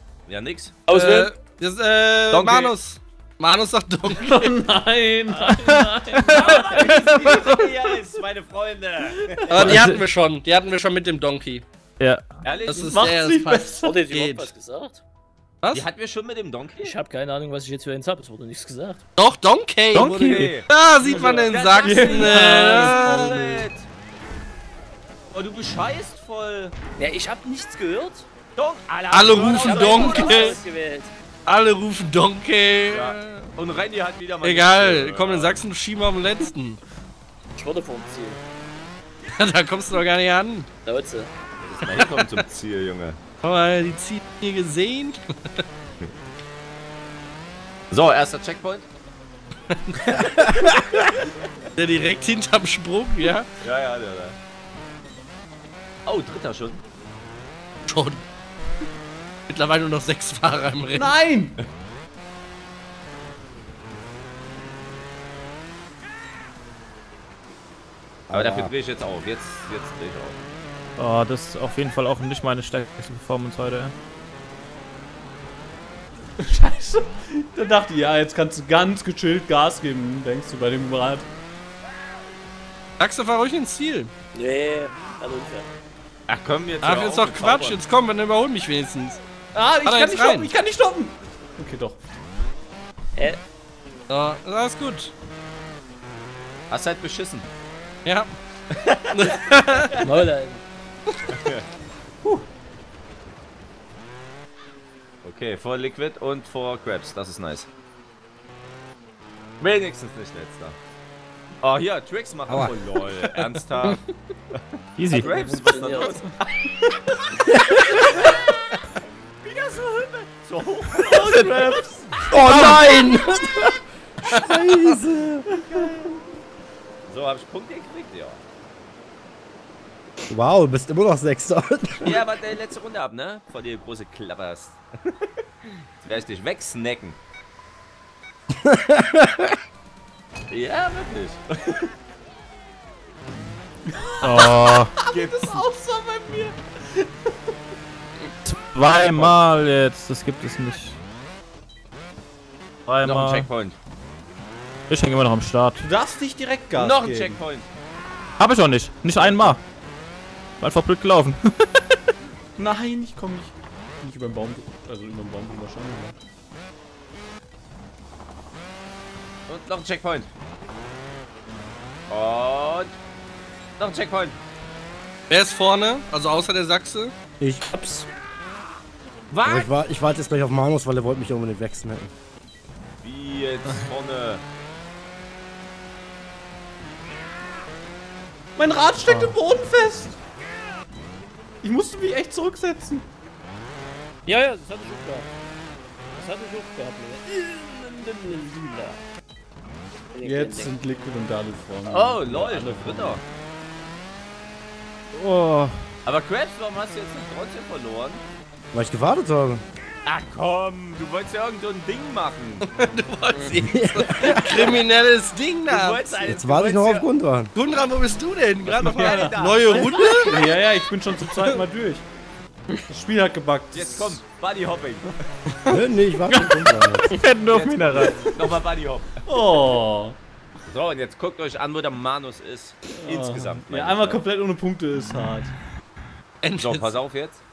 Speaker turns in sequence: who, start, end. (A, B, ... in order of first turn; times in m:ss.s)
0:00.3-0:00.8 A
0:00.9-0:01.3 B
0:00.9-0:04.5 C
0:02.3-0:02.7 A
0:04.1-0:07.0 D
0:06.3-0:09.9 A
0:06.3-0:07.5 E
0:09.5-0:11.6 C
0:09.5-0:10.0 E
0:12.0-0:12.3 E
0:12.4-0:13.0 A
0:12.6-0:14.5 C
0:12.8-0:14.0 D
0:13.8-0:15.0 B
0:15.7-0:17.0 A
0:16.8-0:19.0 B
0:19.2-0:23.6 C
0:19.9-0:20.6 E
0:20.0-0:23.9 A
0:21.1-0:23.6 D
0:25.3-0:26.7 A
0:27.0-0:28.3 B
0:28.5-0:30.6 A
0:29.1-0:30.6 C
0:29.4-0:31.1 B
0:31.4-0:33.5 C
0:32.9-0:35.6 A
0:34.4-0:36.8 C
0:37.6-0:38.4 B
0:39.3-0:40.7 C
0:40.8-0:41.3 B
0:41.6-0:43.2 A
0:41.8-0:42.2 C
0:43.4-0:45.6 C
0:47.9-0:48.9 A
0:49.7-0:50.8 C
0:50.6-0:51.0 F
0:51.8-0:53.5 C
0:53.6-0:54.4 A
0:56.0-0:56.8 A
0:57.8-0:58.2 C
0:59.5-1:01.1 C
1:00.9-1:01.6 D
1:08.3-1:08.7 F
1:08.3-1:10.4 A
1:11.0-1:13.9 E
1:16.4-1:21.3 D
1:23.0-1:24.1 C
1:24.3-1:25.7 B
1:26.3-1:27.8 A
1:26.8-1:29.2 C
1:29.5-1:32.0 D
1:29.8-1:30.5 C
1:34.1-1:35.1 C
1:36.7-1:37.5 A
1:38.0-1:38.3 C
1:39.1-1:39.9 C
1:40.0-1:40.6 B
1:41.4-1:41.6 A
1:45.2-1:47.7 A
1:49.6-1:50.8 A
1:51.6-1:54.0 A
1:52.5-1:52.7 F
1:54.5-1:56.5 A
1:55.0-1:55.3 E
1:55.1-1:56.3 B
1:58.0-1:58.8 A
1:59.4-2:02.4 A
2:01.0-2:02.3 D
2:02.3-2:03.8 F
2:02.4-2:02.9 E
2:02.8-2:03.1 C
2:04.3-2:05.4 F
2:05.6-2:06.2 A
2:07.1-2:08.4 A
2:10.3-2:12.2 F
2:12.0-2:17.2 A
2:18.6-2:19.5 F
2:20.5-2:21.9 A
2:23.9-2:27.5 D
2:24.2-2:24.9 E
2:25.1-2:25.6 A
2:28.4-2:31.0 E
2:32.9-2:33.5 E
2:33.0-2:33.8 A
2:34.9-2:35.8 E
2:35.8-2:37.4 D
2:36.8-2:37.7 A
2:38.4-2:39.6 E
2:40.6-2:41.4 E
2:42.6-2:46.1 D
2:49.5-2:50.3 A
2:52.1-2:52.9 A
2:53.8-2:54.4 A
2:55.3-2:57.1 C
2:57.7-2:58.0 B
2:59.3-2:59.7 A
2:59.4-3:02.1 F
3:03.0-3:04.4 A
3:08.6-3:10.2 D
3:11.6-3:13.0 D
3:14.2-3:15.3 B
3:16.1-3:19.0 B
3:20.1-3:20.7 B
3:20.2-3:23.2 D
3:21.8-3:23.2 A
3:25.2-3:25.7 E
3:26.0-3:28.2 A
3:28.7-3:29.6 F
3:30.0-3:32.6 A
3:32.6-3:36.1 C
3:33.3-3:33.6 B
3:33.6-3:34.8 F
3:35.7-3:37.1 A
3:36.2-3:37.5 F
3:37.5-3:40.5 C
3:38.6-3:40.2 A
3:38.8-3:42.0 D
3:42.9-3:44.2 D
3:43.7-3:45.2 A
3:45.7-3:47.1 F
3:47.1-3:48.2 E
3:47.5-3:49.1 A
3:49.2-3:50.2 D
3:50.6-3:54.2 A
3:52.9-3:55.5 D
3:56.4-3:57.0 C
3:56.5-3:57.4 A